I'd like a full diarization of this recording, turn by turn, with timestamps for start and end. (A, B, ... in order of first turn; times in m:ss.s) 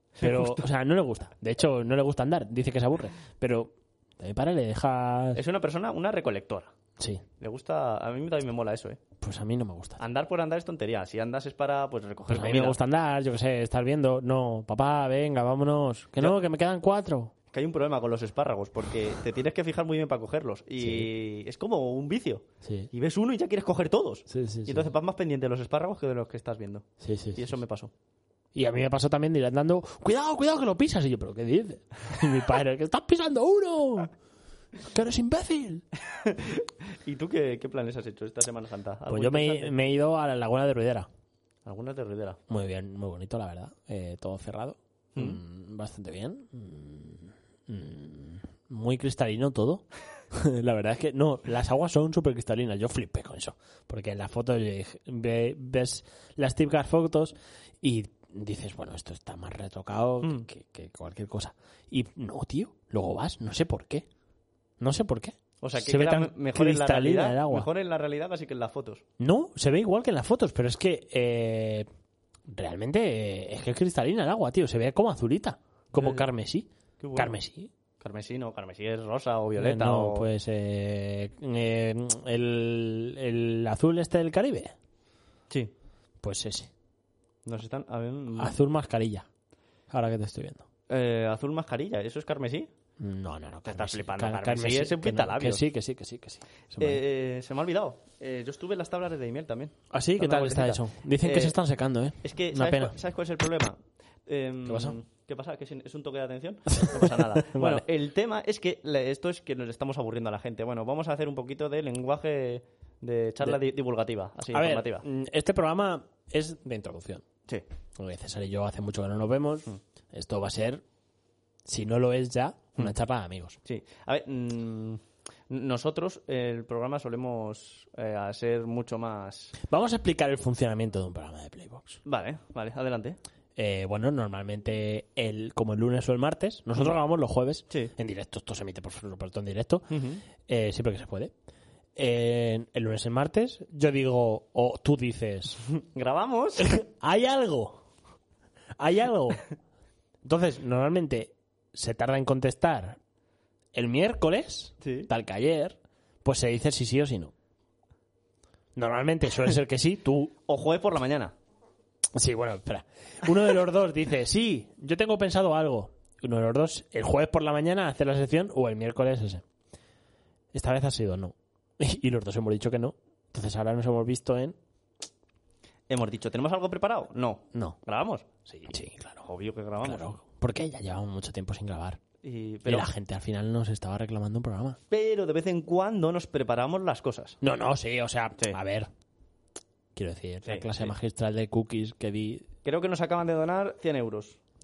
0:00.2-0:00.6 A
0:00.2-0:05.4 B
0:05.3-0:06.7 A
0:07.4-0:09.0 A
0:09.2-0:10.0 B
0:10.0-0:12.8 A
0:12.3-0:17.3 B
0:17.5-0:27.9 A
0:20.8-0:21.1 B
0:22.6-0:22.9 B
0:24.3-0:24.9 B
0:27.0-0:27.5 B
0:28.5-0:34.1 B
0:34.8-0:35.8 B
0:36.2-0:39.7 A
0:39.1-0:41.1 B
0:41.6-0:42.4 A
0:42.5-1:04.0 B
0:45.1-0:45.4 A
1:00.2-1:00.5 A
1:04.8-1:07.7 B
1:05.6-1:09.0 A
1:09.2-1:11.9 B
1:12.5-1:17.7 B
1:15.9-1:16.3 A
1:17.0-1:17.3 A
1:18.0-1:20.3 A
1:19.6-1:24.7 B
1:26.2-1:26.7 B
1:27.4-1:28.6 A
1:28.4-1:29.2 B
1:29.9-1:30.6 B
1:30.9-1:32.7 A
1:33.0-1:37.0 B
1:33.7-1:35.6 A
1:36.8-1:41.6 A
1:39.9-1:43.0 B
1:42.2-1:55.0 A
1:44.6-1:45.0 B
1:46.8-1:47.8 B
1:54.5-1:57.2 B
1:58.0-2:00.8 B
2:01.6-2:03.6 B
2:03.6-2:09.5 A
2:09.6-2:12.0 B
2:12.0-2:13.2 A
2:13.6-2:21.3 B
2:19.9-2:20.2 A
2:22.0-2:25.6 B
2:25.9-2:26.8 A
2:26.6-2:27.8 B
2:28.8-2:29.4 B
2:30.2-2:33.0 B
2:33.7-2:37.3 B
2:34.8-2:35.1 A
2:38.8-2:40.3 B
2:40.5-2:41.3 A
2:42.1-2:49.4 B
2:50.5-2:54.6 B
2:55.9-3:00.2 A
2:57.5-2:57.8 B
2:58.5-2:59.2 B
2:59.8-3:02.0 B
3:02.2-3:02.9 A
3:02.6-3:04.8 B
3:04.9-3:07.4 A
3:07.4-3:08.9 B
3:09.9-3:12.5 B
3:10.4-3:10.9 A
3:12.6-3:14.4 A